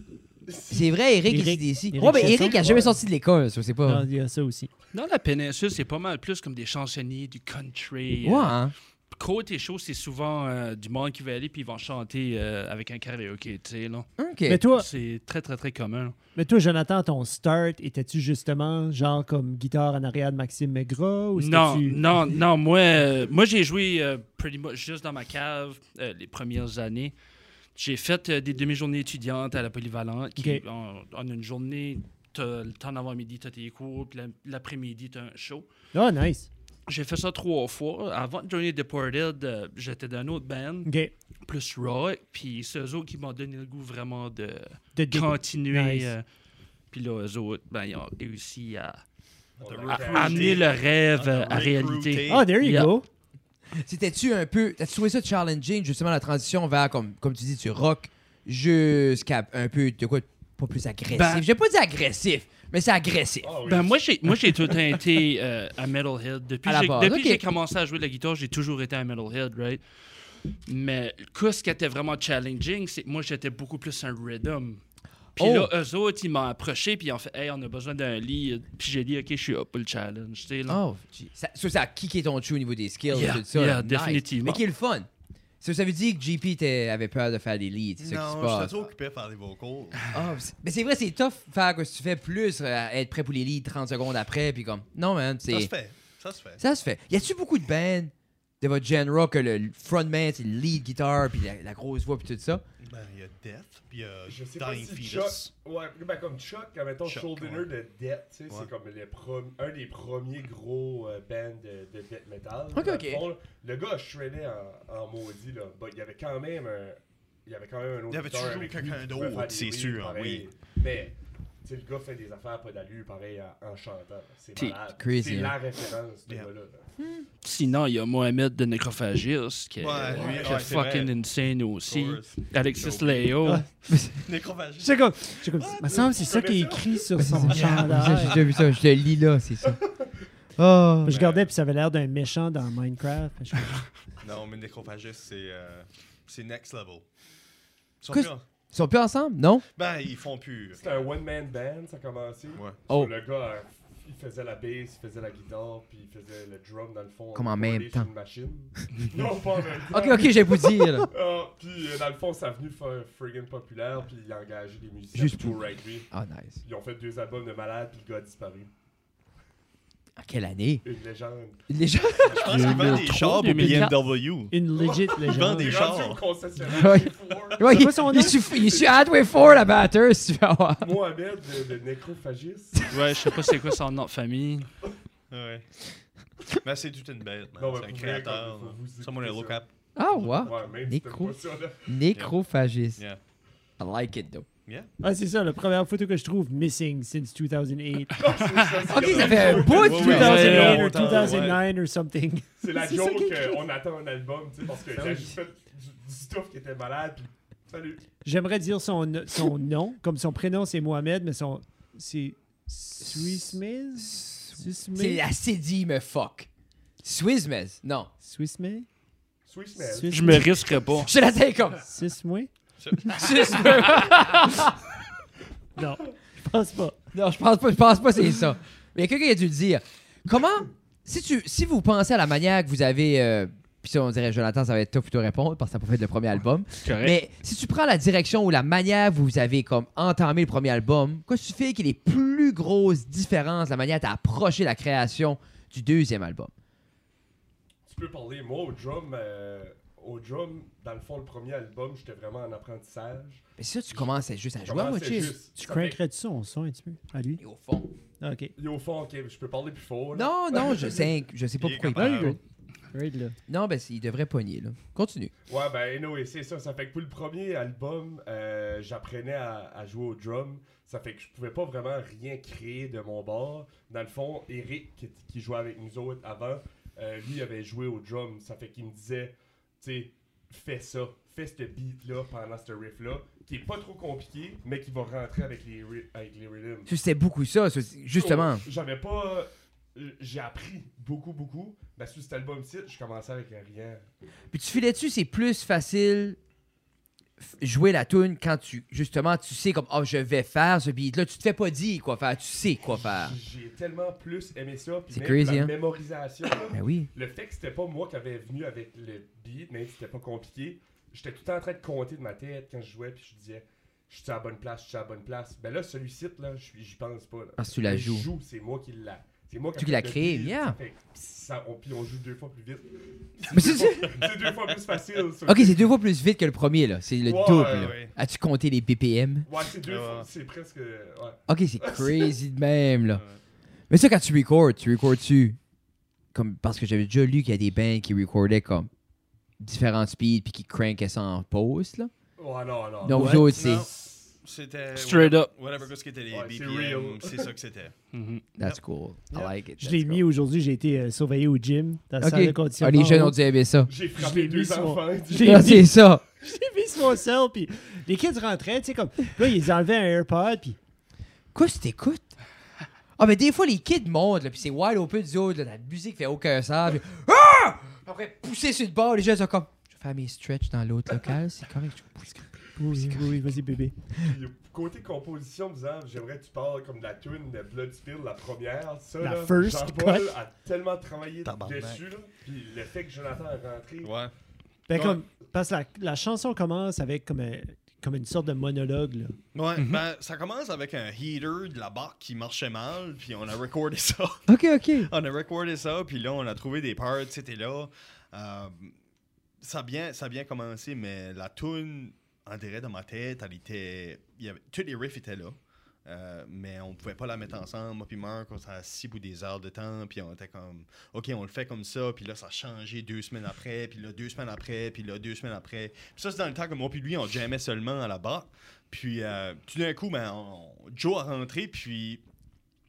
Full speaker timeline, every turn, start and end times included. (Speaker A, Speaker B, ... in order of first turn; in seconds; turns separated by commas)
Speaker A: 0.5-0.9, Speaker B: 0.7-4.0, Speaker C: 1.2-2.9, Speaker A: 2.0-3.0, Speaker C: 3.8-4.7, Speaker D: 4.9-8.6, Speaker B: 8.2-8.7, Speaker D: 9.1-16.1, Speaker B: 14.2-14.6, Speaker C: 14.5-14.9, Speaker C: 16.4-22.0, Speaker D: 21.4-27.1, Speaker D: 27.7-35.7, Speaker C: 30.4-30.6, Speaker C: 35.9-36.5, Speaker D: 36.9-40.9, Speaker C: 40.8-41.1, Speaker D: 41.5-46.2, Speaker C: 45.0-46.1, Speaker D: 46.9-49.0, Speaker A: 49.6-50.7, Speaker E: 49.6-52.5, Speaker D: 49.9-53.0, Speaker C: 52.3-53.0, Speaker B: 53.7-63.6, Speaker D: 61.1-61.5, Speaker A: 63.4-64.0, Speaker D: 63.6-69.8, Speaker B: 66.7-67.4, Speaker D: 70.7-74.8, Speaker B: 75.3-75.7, Speaker D: 75.3-80.8, Speaker B: 80.7-85.1, Speaker D: 83.1-84.6, Speaker B: 85.6-88.9, Speaker E: 88.0-90.0, Speaker B: 90.1-95.7, Speaker E: 95.5-96.6, Speaker B: 96.6-102.6, Speaker E: 102.8-105.5, Speaker A: 104.3-126.8, Speaker E: 107.0-107.7, Speaker B: 112.7-113.2, Speaker E: 118.1-120.4, Speaker B: 124.6-125.5, Speaker B: 127.0-127.2, Speaker D: 127.4-133.7, Speaker E: 129.8-131.2, Speaker A: 130.1-130.5, Speaker E: 131.8-136.7, Speaker B: 133.9-134.2, Speaker C: 134.8-138.4, Speaker A: 136.1-136.9, Speaker B: 137.2-139.8, Speaker D: 137.5-138.0, Speaker E: 138.1-138.6, Speaker A: 139.6-140.1, Speaker B: 140.6-141.2, Speaker C: 141.0-143.9, Speaker E: 141.1-141.5, Speaker E: 144.2-147.1, Speaker E: 148.0-148.4, Speaker B: 148.1-149.7, Speaker E: 149.8-151.0, Speaker A: 150.8-166.1, Speaker B: 157.3-158.1, Speaker B: 159.9-161.1, Speaker B: 165.1-166.6, Speaker A: 166.6-168.7, Speaker B: 170.2-170.8, Speaker A: 170.8-171.6, Speaker B: 171.7-173.9, Speaker E: 172.2-174.5, Speaker D: 172.4-174.0, Speaker C: 174.5-175.8, Speaker A: 174.8-179.3, Speaker E: 175.2-176.2, Speaker B: 176.6-181.0, Speaker C: 177.6-178.5, Speaker A: 180.8-183.0, Speaker D: 182.9-184.7, Speaker E: 185.3-185.7, Speaker E: 186.6-189.7, Speaker A: 187.6-189.6, Speaker B: 189.9-191.3, Speaker A: 190.1-191.9, Speaker B: 191.8-193.0, Speaker B: 193.8-194.5, Speaker C: 195.0-198.2, Speaker A: 198.2-201.4, Speaker E: 198.8-201.6, Speaker B: 198.9-200.6, Speaker C: 199.8-203.6, Speaker D: 200.0-201.1, Speaker A: 202.6-208.0, Speaker C: 205.0-205.3, Speaker C: 208.2-215.2, Speaker B: 214.0-216.5, Speaker B: 217.0-218.1, Speaker C: 218.2-218.9, Speaker A: 219.5-220.1, Speaker C: 219.8-220.6, Speaker D: 220.1-221.1, Speaker B: 220.9-221.8, Speaker C: 221.8-222.5, Speaker E: 222.8-223.8, Speaker B: 223.1-224.8, Speaker C: 225.8-226.9, Speaker B: 227.1-246.5, Speaker D: 236.8-237.1, Speaker A: 247.8-253.4, Speaker B: 253.6-255.3, Speaker A: 254.6-256.0, Speaker C: 255.2-257.4, Speaker B: 257.4-257.9, Speaker C: 258.2-258.5, Speaker A: 258.6-261.1, Speaker B: 260.1-262.4, Speaker E: 261.6-262.4, Speaker C: 261.9-262.4, Speaker C: 262.9-263.4, Speaker B: 263.5-265.3, Speaker A: 265.5-286.9, Speaker B: 286.9-288.6, Speaker A: 288.1-294.0, Speaker B: 294.5-296.4, Speaker B: 297.4-303.4, Speaker A: 303.0-325.9, Speaker B: 305.1-305.7, Speaker B: 306.7-307.1, Speaker B: 317.6-318.3, Speaker B: 319.8-320.8, Speaker B: 323.5-324.2, Speaker B: 325.4-329.4, Speaker A: 327.2-328.0, Speaker E: 327.5-328.1, Speaker A: 329.4-332.3, Speaker E: 329.9-330.3, Speaker B: 331.5-333.2, Speaker E: 333.1-333.4, Speaker B: 333.9-335.6, Speaker B: 336.3-338.9, Speaker B: 339.6-342.1, Speaker A: 342.4-343.4, Speaker B: 343.0-343.9, Speaker C: 343.1-343.6, Speaker E: 343.5-347.9, Speaker D: 344.9-345.5, Speaker A: 346.3-347.5, Speaker D: 348.1-348.5, Speaker B: 348.6-350.2, Speaker C: 349.8-353.4, Speaker B: 352.2-353.9, Speaker A: 353.9-355.8, Speaker C: 354.1-360.8, Speaker B: 355.4-356.2, Speaker B: 361.5-362.3, Speaker B: 363.2-373.2, Speaker C: 372.8-373.9, Speaker A: 374.2-384.1, Speaker C: 379.2-380.3, Speaker E: 381.4-382.0, Speaker E: 384.0-384.3, Speaker C: 384.9-389.4, Speaker E: 384.9-385.2, Speaker E: 389.5-398.9, Speaker D: 389.8-390.1, Speaker B: 394.5-395.1, Speaker E: 399.6-422.2